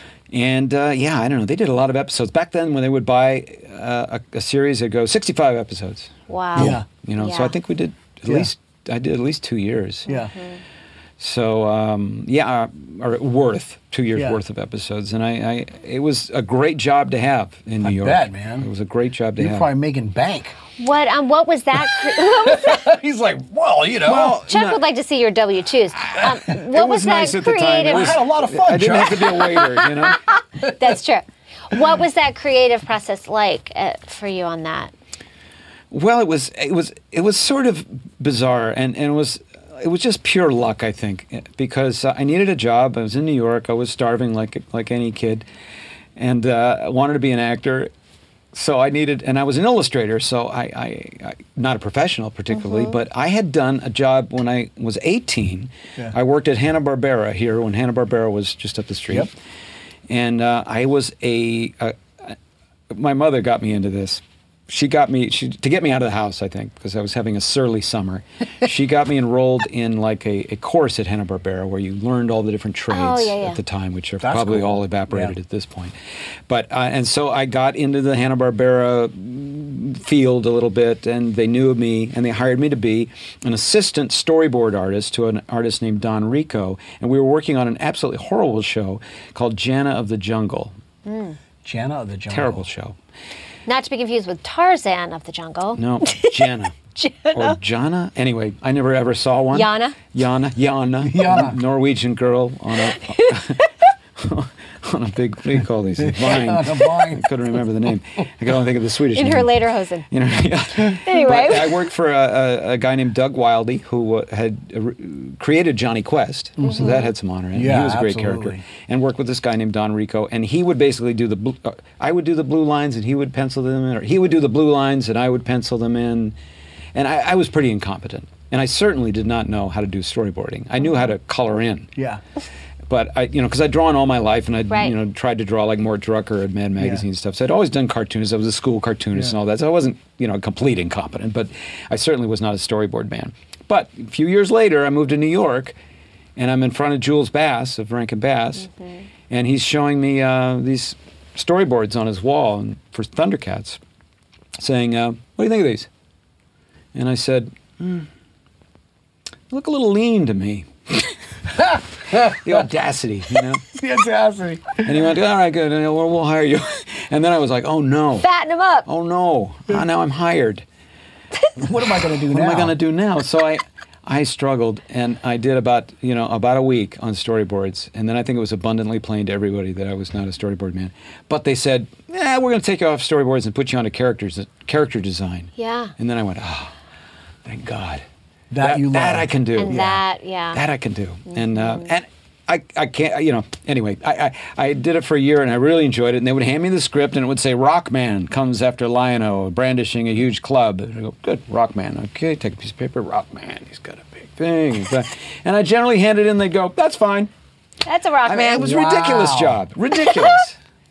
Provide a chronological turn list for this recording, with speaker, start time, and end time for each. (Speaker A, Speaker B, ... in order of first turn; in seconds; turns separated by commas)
Speaker A: 0.3-10.1, Speaker B: 6.3-7.5, Speaker C: 6.6-6.8, Speaker C: 10.1-10.3, Speaker B: 10.1-10.4, Speaker A: 11.2-19.7, Speaker C: 14.1-14.4, Speaker C: 17.8-18.7, Speaker C: 19.4-20.6, Speaker B: 20.8-22.9, Speaker C: 21.9-24.4, Speaker A: 24.0-24.8, Speaker B: 24.5-28.2, Speaker A: 26.1-30.2, Speaker C: 27.9-29.6, Speaker B: 29.8-34.9, Speaker C: 30.6-30.9, Speaker A: 35.9-45.5, Speaker A: 46.2-47.9, Speaker A: 48.5-59.3, Speaker A: 60.1-62.4, Speaker A: 62.9-76.0, Speaker B: 72.9-73.6, Speaker C: 74.2-75.3, Speaker A: 76.5-90.7, Speaker B: 91.1-91.4, Speaker C: 91.6-92.6, Speaker A: 92.3-93.0, Speaker B: 93.7-97.6, Speaker A: 95.8-96.8, Speaker A: 97.3-109.5, Speaker B: 99.5-100.0, Speaker C: 101.0-101.6, Speaker B: 103.0-103.6, Speaker C: 106.0-107.3, Speaker B: 109.1-110.1, Speaker A: 110.1-126.4, Speaker B: 111.0-111.8, Speaker C: 116.6-117.0, Speaker B: 116.6-117.1, Speaker C: 117.5-118.6, Speaker A: 126.9-131.9, Speaker C: 132.0-132.2, Speaker A: 132.9-145.8, Speaker C: 136.8-137.0, Speaker A: 146.4-148.7, Speaker A: 149.3-153.8, Speaker A: 154.6-155.9, Speaker A: 156.9-158.1, Speaker A: 159.5-161.2, Speaker C: 161.6-162.5, Speaker A: 162.1-163.7, Speaker C: 163.7-164.9, Speaker A: 164.8-168.3, Speaker B: 168.2-168.9, Speaker A: 168.9-170.7, Speaker C: 171.6-172.8, Speaker A: 172.3-186.7, Speaker B: 185.6-185.9, Speaker A: 187.4-188.0, Speaker C: 188.5-190.0, Speaker A: 188.6-189.8, Speaker B: 189.6-190.6, Speaker A: 190.5-207.3, Speaker B: 191.4-191.8, Speaker B: 207.8-208.8, Speaker A: 208.2-210.6, Speaker C: 208.6-209.6